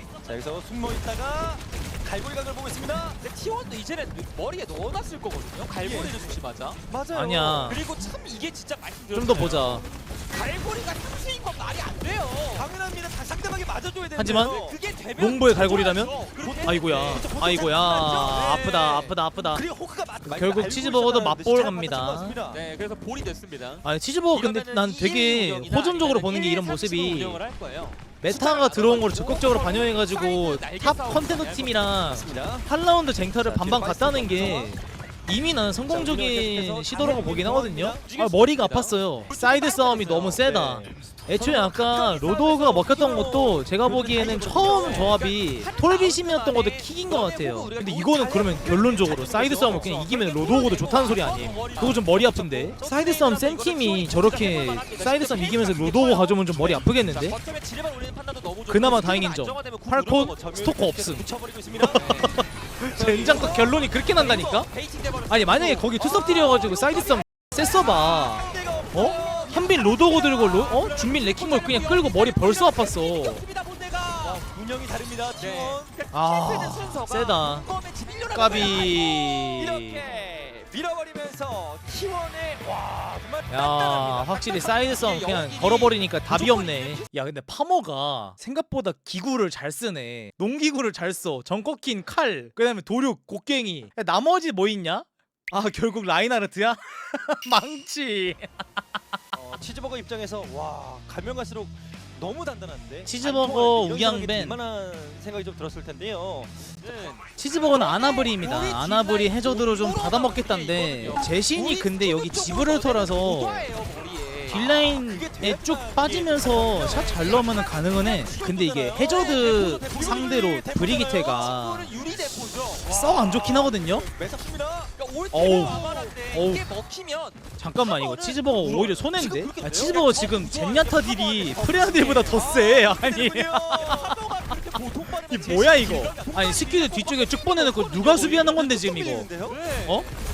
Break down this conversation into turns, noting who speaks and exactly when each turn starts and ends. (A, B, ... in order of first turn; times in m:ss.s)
0:00.2-0:03.2 A
0:03.2-0:06.8 B
0:05.8-0:06.2 A
0:06.9-0:07.7 A
0:07.1-0:07.8 C
0:07.4-0:12.7 B
0:09.1-0:09.8 C
0:12.5-0:14.8 A
0:14.1-0:14.6 C
0:14.3-0:17.4 B
0:15.2-0:19.6 C
0:16.4-0:18.7 A
0:18.0-0:19.2 B
0:19.5-0:22.6 A
0:20.2-0:22.4 C
0:22.5-0:32.0 B
0:23.8-0:27.4 C
0:28.2-0:57.4 C
0:32.1-0:32.7 A
0:33.4-0:34.8 A
0:35.9-0:38.0 A
0:38.0-0:40.6 B
0:40.4-0:45.2 A
0:41.6-0:42.1 B
0:43.2-1:00.7 B
0:48.2-0:50.1 A
0:58.7-1:04.7 C
1:00.3-1:02.2 A
1:01.9-1:02.4 B
1:02.9-1:04.5 A
1:03.3-1:07.2 B
1:05.3-1:13.4 C
1:06.0-1:06.8 A
1:07.6-1:10.2 A
1:08.9-1:14.4 B
1:14.2-1:15.9 A
1:15.4-1:19.6 B
1:16.1-1:17.7 C
1:18.3-1:20.2 C
1:19.6-1:24.2 A
1:23.5-1:38.8 C
1:23.6-1:27.1 B
1:39.3-1:46.7 A
1:43.0-1:44.6 C
1:46.8-1:54.9 B
1:47.4-1:53.7 C
1:54.5-2:01.9 C
1:54.5-2:01.6 A
1:56.5-1:58.4 B
1:59.0-2:03.2 B
2:02.8-2:04.1 C
2:02.9-2:06.1 A
2:05.0-2:12.9 B
2:05.3-2:06.6 C
2:07.6-2:14.2 C
2:09.6-2:10.0 A
2:12.3-2:14.3 A
2:14.1-2:17.3 B
2:15.1-2:19.3 C
2:17.3-2:19.6 A
2:17.9-2:18.6 B
2:19.4-2:20.2 B